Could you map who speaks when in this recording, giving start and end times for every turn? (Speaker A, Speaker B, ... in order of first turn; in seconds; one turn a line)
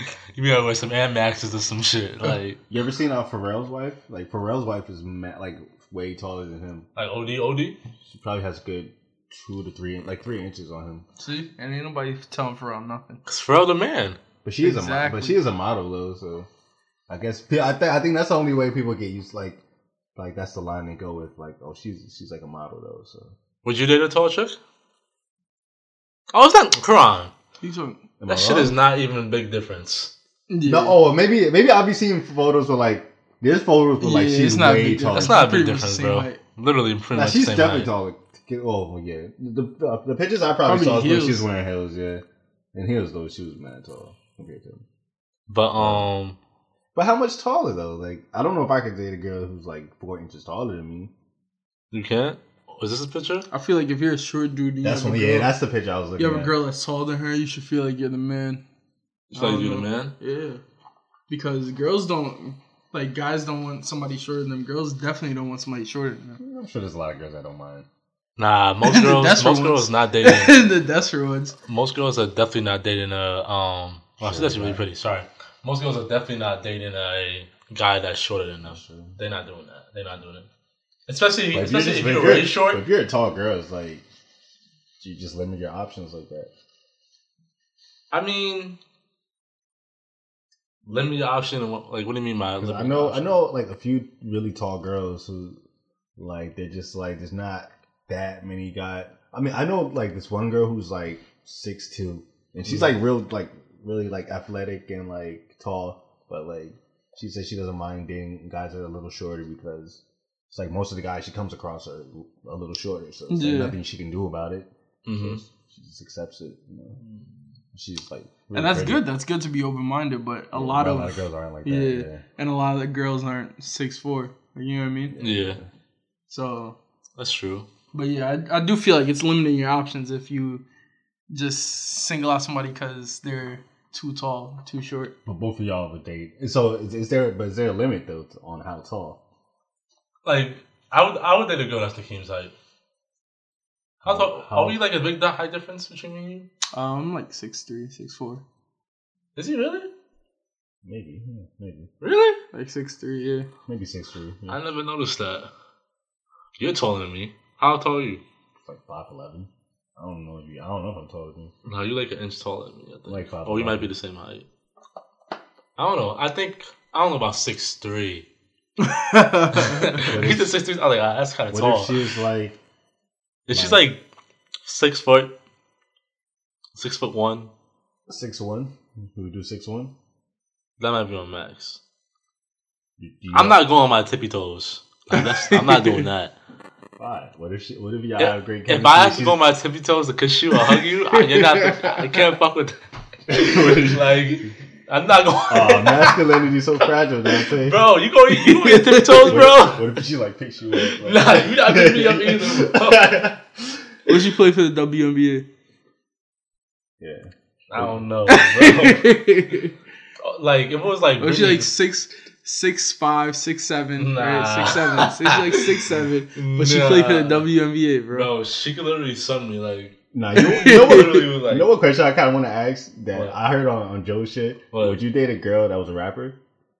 Speaker A: 0.3-2.6
Speaker B: 2.7-6.9
Speaker A: 7.0-7.8
Speaker B: 8.1-11.1
Speaker C: 11.2-13.2
Speaker A: 13.3-14.2
Speaker B: 14.4-16.5
Speaker C: 14.6-15.4
Speaker B: 17.1-19.6
Speaker B: 20.2-23.4
Speaker A: 23.6-24.6
Speaker A: 26.3-27.3
Speaker C: 27.6-28.1
Speaker B: 28.2-28.8
Speaker A: 28.3-30.1
Speaker C: 30.5-31.0
Speaker B: 30.6-35.4
Speaker C: 34.0-36.4
Speaker A: 35.1-37.9
Speaker B: 37.1-44.8
Speaker C: 40.6-41.5
Speaker A: 45.5-46.4
Speaker B: 45.8-46.1
Speaker B: 47.0-51.1
Speaker A: 51.9-53.5
Speaker C: 53.5-55.5
Speaker B: 54.8-56.6
Speaker C: 56.2-58.6
Speaker A: 59.3-60.1
Speaker C: 59.3-60.6
Speaker C: 61.3-66.4
Speaker B: 66.4-67.9
Speaker A: 68.4-70.7
Speaker C: 68.8-71.5
Speaker A: 71.7-80.5
Speaker B: 74.2-74.8
Speaker B: 78.7-79.2
Speaker A: 81.1-82.8
Speaker B: 81.5-84.0
Speaker B: 85.0-86.5
Speaker A: 88.1-88.8
Speaker A: 90.8-93.4
Speaker B: 92.6-95.6
Speaker B: 96.2-117.0
Speaker C: 113.3-113.8
Speaker A: 115.1-115.4
Speaker A: 117.0-117.3
Speaker B: 117.7-119.1
Speaker C: 118.5-125.2
Speaker B: 120.5-122.2
Speaker B: 125.1-125.7
Speaker A: 125.2-125.6
Speaker C: 126.3-126.8
Speaker A: 127.2-127.7
Speaker C: 127.9-130.6
Speaker C: 131.3-135.2
Speaker B: 135.3-139.2
Speaker A: 140.2-142.5
Speaker A: 144.0-146.5
Speaker B: 144.1-144.8
Speaker C: 146.7-148.4
Speaker A: 149.4-149.9
Speaker B: 150.8-151.9
Speaker A: 152.0-152.4
Speaker C: 152.5-153.5
Speaker B: 153.7-154.6
Speaker A: 154.5-155.5
Speaker A: 156.6-158.2
Speaker B: 158.6-161.5
Speaker A: 161.7-164.5
Speaker B: 163.1-163.9
Speaker A: 165.8-168.3
Speaker C: 168.8-170.1
Speaker A: 169.5-172.0
Speaker B: 170.0-170.5
Speaker B: 171.5-172.6
Speaker A: 173.5-174.0
Speaker B: 173.5-173.8
Speaker A: 174.7-175.3
Speaker A: 176.8-177.5
Speaker B: 178.1-179.9
Speaker A: 180.8-181.8
Speaker B: 183.0-183.6
Speaker A: 183.3-186.3
Speaker C: 185.1-186.0
Speaker B: 187.0-189.4
Speaker A: 188.2-192.8
Speaker C: 191.2-191.9
Speaker B: 193.3-194.2
Speaker A: 193.3-196.4
Speaker B: 195.5-197.9
Speaker A: 197.6-199.9
Speaker C: 198.3-199.4
Speaker B: 199.3-203.8
Speaker A: 200.9-203.3
Speaker C: 204.1-205.5
Speaker B: 207.0-208.0
Speaker A: 207.7-209.2
Speaker C: 208.3-209.7
Speaker A: 210.2-211.7
Speaker C: 211.2-218.3
Speaker A: 214.0-215.7
Speaker A: 216.4-217.5
Speaker A: 218.1-221.7
Speaker B: 220.1-226.4
Speaker C: 220.3-221.3
Speaker A: 224.7-225.0